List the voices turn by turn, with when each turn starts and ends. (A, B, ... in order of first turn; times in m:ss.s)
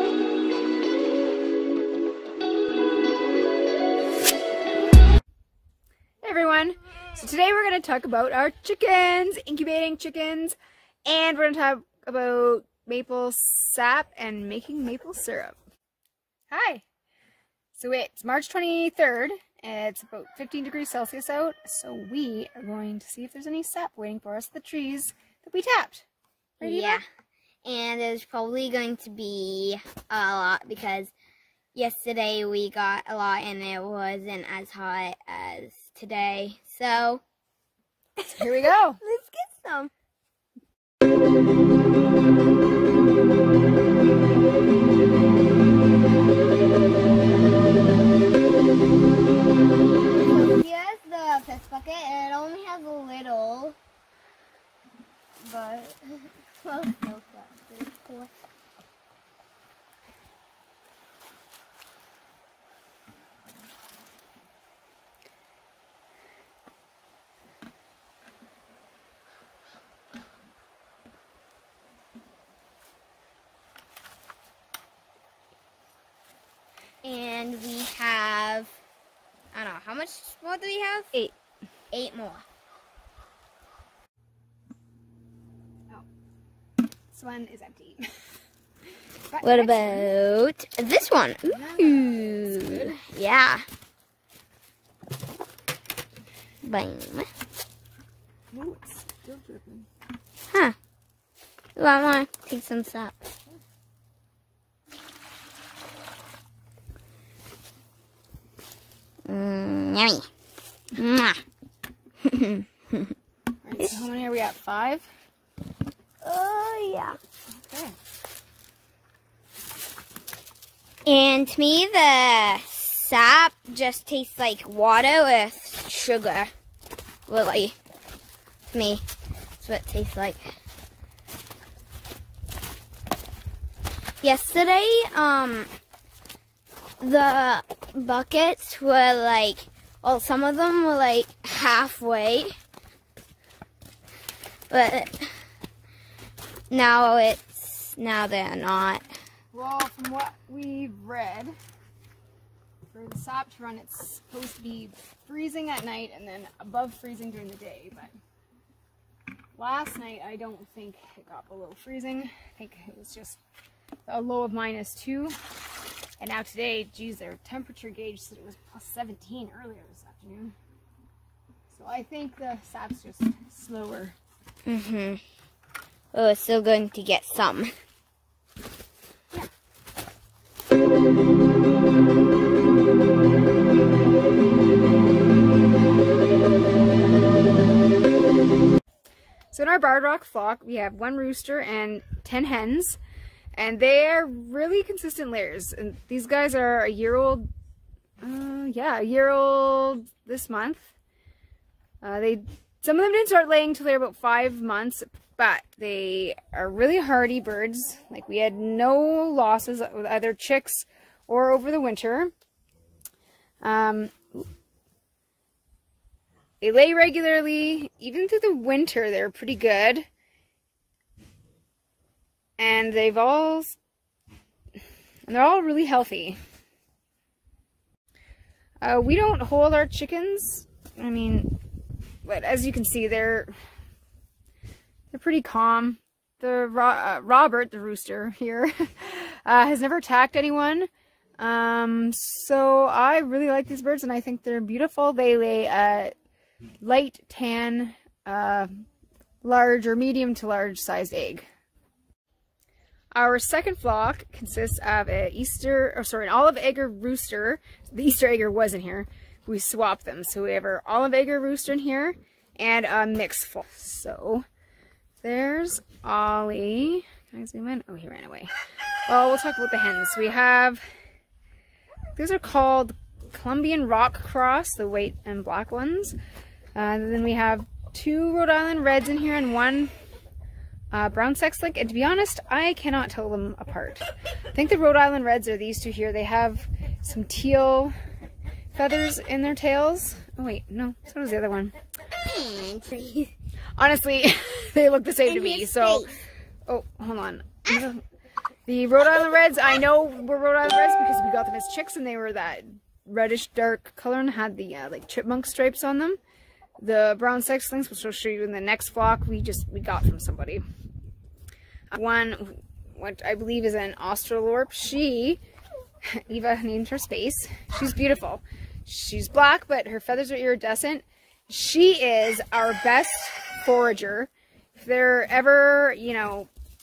0:06.2-0:15.6 A
0:16.5-0:16.8 A
0:17.7-0:26.0 A
0:26.6-0:27.0 B
0:26.6-0:27.0 A
0:27.6-0:31.1 B
0:31.7-0:37.2 B
0:38.2-0:39.9 B
0:38.4-0:39.0 A
0:50.0-0:53.8 B
0:55.4-0:58.3 B
1:17.0-1:18.7 B
1:19.5-1:21.1 B
1:21.9-1:22.4 B
1:27.1-1:28.0 A
1:29.3-1:30.1 A
1:29.4-1:33.6 B
1:31.5-1:33.0 A
1:36.6-1:37.3 B
1:38.5-1:39.9 A
1:41.8-1:43.2 B
1:49.2-1:50.3 B
1:50.9-1:51.4 B
1:52.2-1:53.1 B
1:53.6-1:55.1 A
1:56.2-1:57.2 B
1:57.6-1:58.0 A
2:01.0-2:06.5 B
2:07.3-2:07.8 B
2:08.7-2:09.0 B
2:09.6-2:10.4 B
2:14.2-2:15.7 B
2:17.0-2:22.5 B
2:24.7-2:25.3 B
2:26.7-2:29.0 B
2:29.5-2:31.5 A
2:32.9-2:38.1 A
2:39.6-2:43.4 A
2:44.0-2:45.4 A
2:46.2-2:50.5 A
2:51.7-2:54.2 A
2:54.6-2:55.2 B
2:56.1-2:57.7 B
3:09.5-3:13.0 A
3:13.5-3:17.5 A
3:18.2-3:20.9 A
3:22.0-3:32.3 A
3:33.6-3:34.5 A
3:36.6-3:40.0 A
3:42.6-3:43.8 A
3:45.3-3:46.4 A
3:48.8-3:51.6 A
3:52.2-3:53.5 A
3:55.1-4:06.1 A
4:06.8-4:08.8 A
4:09.4-4:11.4 A
4:13.1-4:24.4 A
4:25.2-4:28.5 A
4:29.1-4:30.8 A
4:32.1-4:36.2 A
4:36.7-4:39.9 A
4:40.9-4:47.9 A
4:48.7-4:51.7 A
4:52.2-4:53.3 B
4:53.8-4:56.1 A
4:55.2-4:56.2 B
4:56.7-4:58.0 A
4:58.6-5:06.2 A
5:06.8-5:10.6 A
5:11.9-5:15.4 A
5:16.0-5:26.5 A